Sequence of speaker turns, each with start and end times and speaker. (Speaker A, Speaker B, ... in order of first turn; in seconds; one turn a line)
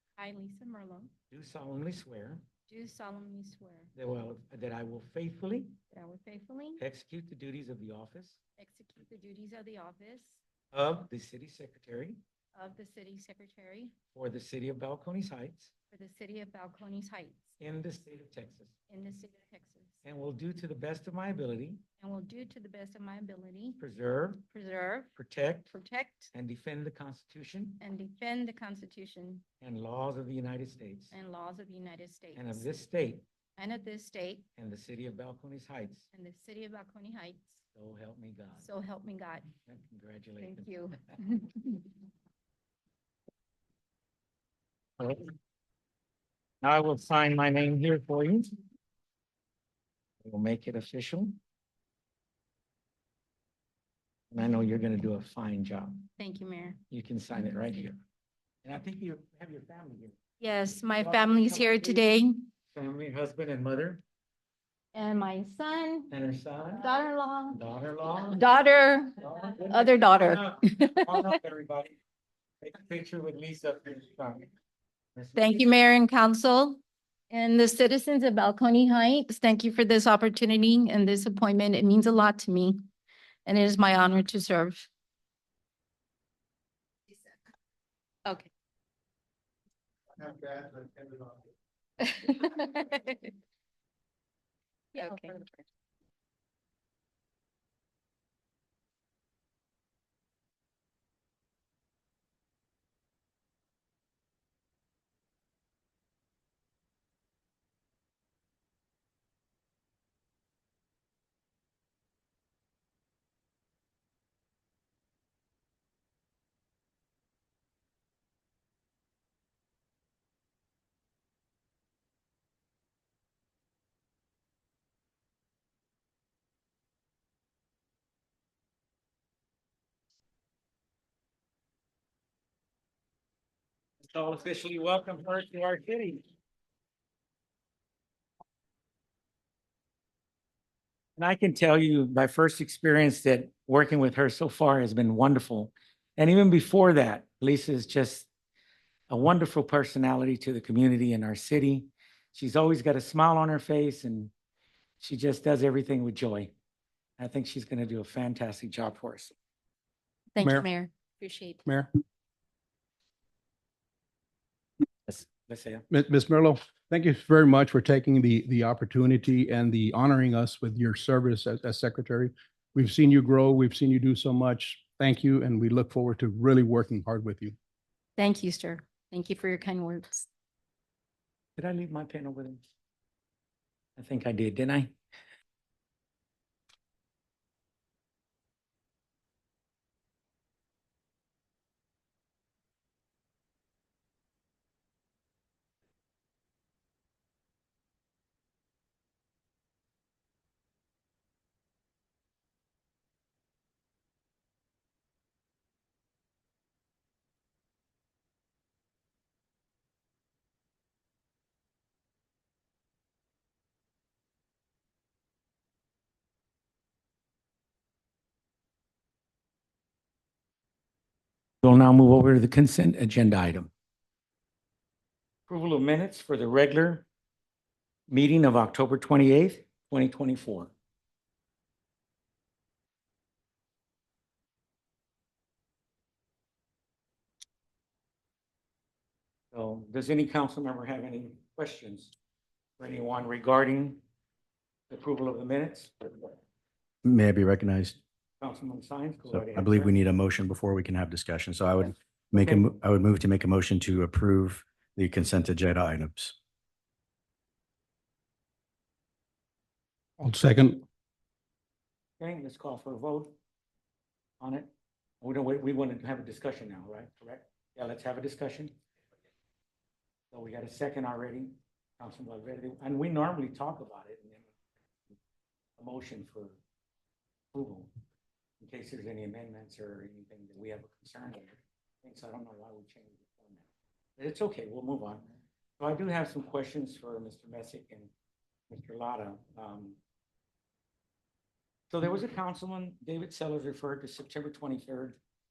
Speaker A: 0.2-1.1
Speaker B: 1.3-2.4
Speaker A: 2.7-3.9
Speaker B: 3.9-5.8
Speaker A: 5.9-6.8
Speaker B: 6.8-8.4
Speaker A: 8.6-10.4
Speaker B: 10.7-12.2
Speaker A: 12.5-13.9
Speaker B: 14.1-15.7
Speaker A: 15.9-17.6
Speaker B: 17.6-18.7
Speaker A: 18.9-20.0
Speaker B: 20.0-21.8
Speaker A: 22.0-23.8
Speaker B: 23.8-24.4
Speaker A: 24.5-25.1
Speaker B: 25.1-25.7
Speaker A: 25.7-26.3
Speaker B: 26.3-27.8
Speaker A: 27.8-29.4
Speaker B: 29.6-31.1
Speaker A: 31.1-32.7
Speaker B: 32.4-33.2
Speaker A: 33.6-34.4
Speaker B: 34.6-36.1
Speaker A: 36.1-37.6
Speaker B: 37.7-38.7
Speaker A: 38.6-39.5
Speaker B: 39.6-41.1
Speaker A: 40.4-41.9
Speaker B: 45.0-45.3
Speaker B: 46.6-48.5
Speaker B: 50.2-51.4
Speaker B: 54.3-56.0
Speaker A: 56.2-56.8
Speaker B: 56.9-58.0
Speaker B: 58.6-60.2
Speaker A: 60.4-62.5
Speaker B: 61.0-62.1
Speaker B: 62.7-64.0
Speaker A: 64.9-66.1
Speaker B: 66.1-66.9
Speaker A: 66.7-67.6
Speaker B: 67.5-68.4
Speaker A: 68.3-71.3
Speaker B: 69.2-71.9
Speaker B: 72.6-74.5
Speaker B: 75.1-75.7
Speaker A: 75.3-82.8
Speaker A: 83.5-84.9
Speaker A: 92.0-93.3
Speaker A: 94.9-95.5
Speaker B: 134.0-136.2
Speaker B: 141.2-148.3
Speaker B: 149.1-154.3
Speaker B: 155.0-156.5
Speaker B: 157.2-159.3
Speaker A: 160.3-161.6
Speaker C: 160.4-160.7
Speaker B: 165.1-165.8
Speaker C: 165.9-177.6
Speaker A: 178.2-180.3
Speaker B: 181.6-182.7
Speaker B: 184.0-184.9
Speaker B: 221.6-223.7
Speaker B: 225.5-227.1
Speaker B: 228.1-230.7
Speaker B: 239.5-242.1
Speaker B: 242.8-244.0
Speaker B: 244.9-246.3
Speaker D: 247.0-248.0
Speaker B: 248.4-249.9
Speaker D: 249.3-256.3
Speaker B: 252.3-252.7
Speaker C: 260.2-260.8
Speaker B: 262.2-263.3
Speaker B: 264.4-268.7
Speaker B: 270.3-274.5
Speaker B: 275.8-276.6
Speaker B: 277.5-277.9
Speaker B: 278.6-283.6
Speaker B: 284.2-285.2
Speaker B: 285.8-288.1
Speaker B: 288.7-290.0
Speaker B: 291.9-295.2